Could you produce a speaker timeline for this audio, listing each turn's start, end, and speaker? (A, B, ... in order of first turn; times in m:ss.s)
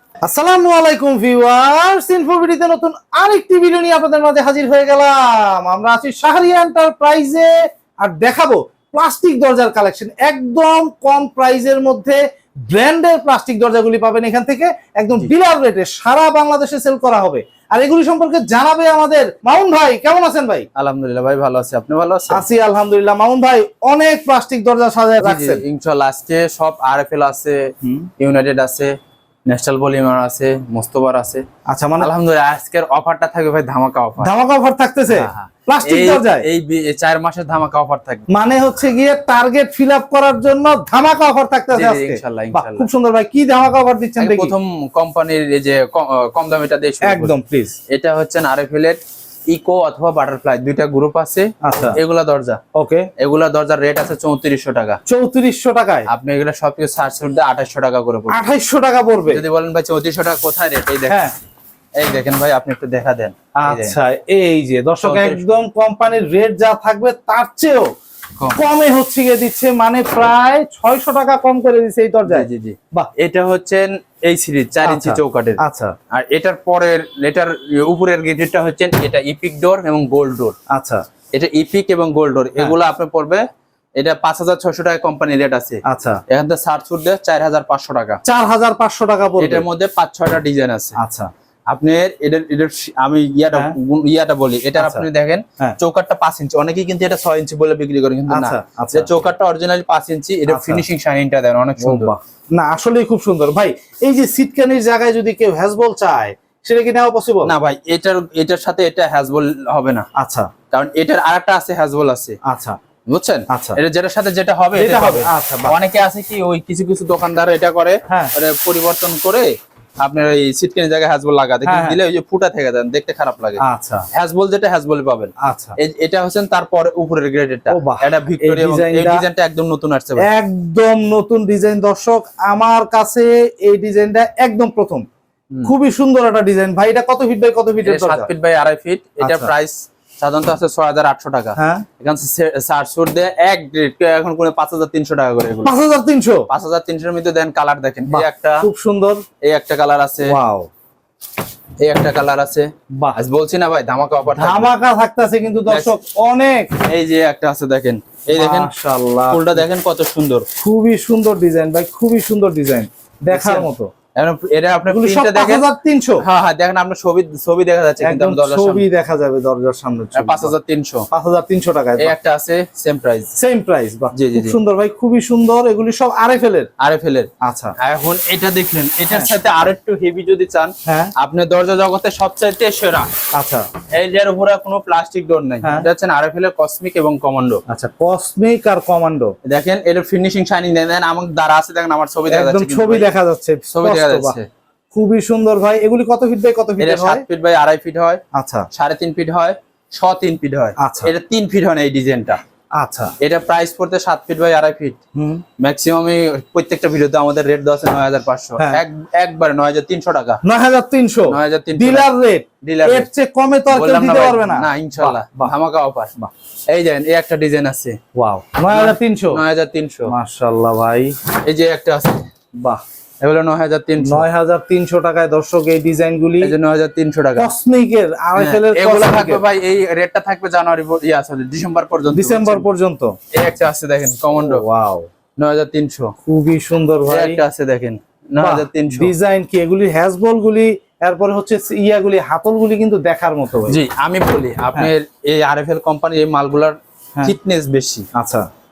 0:00.2-0:20.7 A
0:20.8-0:22.4 B
0:22.3-0:25.6 A
0:25.2-0:27.6 B
0:27.8-0:28.1 A
0:28.2-0:28.9 B
0:29.5-0:31.4 B
0:31.7-0:32.1 A
0:32.0-0:34.3 B
0:34.2-0:36.4 A
0:35.1-0:38.2 B
0:38.3-0:44.5 A
0:41.7-0:42.9 B
0:44.2-0:47.3 B
0:47.0-0:47.7 A
0:47.9-0:52.6 B
0:51.6-0:52.0 A
0:52.7-0:53.1 A
0:53.2-0:55.0 B
0:55.1-0:56.1 A
0:56.1-0:58.4 B
0:58.3-0:59.4 A
0:59.3-1:01.3 B
1:01.1-1:01.3 A
1:02.0-1:04.0 B
1:03.6-1:07.9 A
1:05.0-1:05.4 B
1:08.5-1:13.1 A
1:12.3-1:15.6 B
1:14.8-1:15.9 A
1:16.1-1:20.6 B
1:20.7-1:21.0 A
1:21.3-1:23.4 B
1:24.0-1:28.2 B
1:25.9-1:26.2 A
1:28.2-1:29.6 A
1:29.4-1:31.0 B
1:31.0-1:31.3 A
1:31.7-1:42.1 B
1:34.8-1:35.1 A
1:38.3-1:39.1 A
1:40.5-1:40.8 A
1:41.8-1:47.5 A
1:47.4-1:50.0 B
1:50.2-1:50.5 A
1:50.7-1:52.4 B
1:52.4-1:52.8 A
1:53.1-1:59.5 B
1:53.5-1:53.8 A
1:54.7-1:55.8 A
1:58.1-1:58.3 A
2:00.0-2:03.6 B
2:01.6-2:02.0 A
2:03.6-2:04.0 A
2:04.1-2:10.3 B
2:05.4-2:05.8 A
2:07.7-2:09.2 A
2:10.2-2:15.0 A
2:15.6-2:18.3 A
2:17.8-2:25.8 B
2:19.2-2:19.5 A
2:21.6-2:21.8 A
2:25.6-2:26.4 A
2:26.5-2:28.6 B
2:28.1-2:29.2 A
2:29.4-2:30.3 B
2:30.3-2:30.7 A
2:31.8-2:34.7 B
2:34.3-2:36.7 A
2:36.9-2:38.7 B
2:38.3-2:39.6 A
2:39.3-2:40.4 B
2:40.6-2:43.9 A
2:43.3-2:45.6 B
2:44.9-2:46.2 A
2:46.2-2:48.8 B
2:48.0-2:50.5 A
2:50.1-2:51.0 B
2:51.1-2:52.1 A
2:52.0-2:53.3 B
2:53.4-2:56.7 A
2:54.1-2:54.5 B
2:56.8-2:57.3 B
2:57.4-2:57.7 A
2:57.8-3:03.1 B
3:00.8-3:01.1 A
3:03.4-3:03.6 A
3:03.9-3:07.6 B
3:05.6-3:05.9 A
3:07.7-3:09.3 A
3:09.5-3:13.1 B
3:12.3-3:14.4 A
3:13.7-3:14.4 B
3:14.9-3:17.2 A
3:16.8-3:18.2 B
3:18.3-3:18.6 A
3:18.7-3:22.4 B
3:20.8-3:21.1 A
3:22.8-3:23.1 A
3:23.2-3:25.0 B
3:25.1-3:25.4 A
3:25.6-3:30.4 B
3:28.6-3:28.8 A
3:30.4-3:35.5 A
3:31.3-3:32.1 B
3:32.6-3:33.1 B
3:33.7-3:36.1 B
3:36.7-3:38.0 B
3:38.1-3:39.4 A
3:38.7-3:40.1 B
3:40.1-3:41.1 A
3:41.4-3:42.2 B
3:43.2-3:44.2 B
3:44.0-3:46.5 A
3:46.4-3:47.5 B
3:47.4-3:49.4 A
3:48.4-3:52.6 B
3:52.1-3:53.1 A
3:53.3-3:54.6 B
3:54.4-3:55.1 A
3:55.4-3:56.1 B
3:56.2-3:57.4 A
3:57.1-3:59.1 B
3:58.4-4:03.8 A
4:03.7-4:08.0 B
4:08.1-4:08.4 A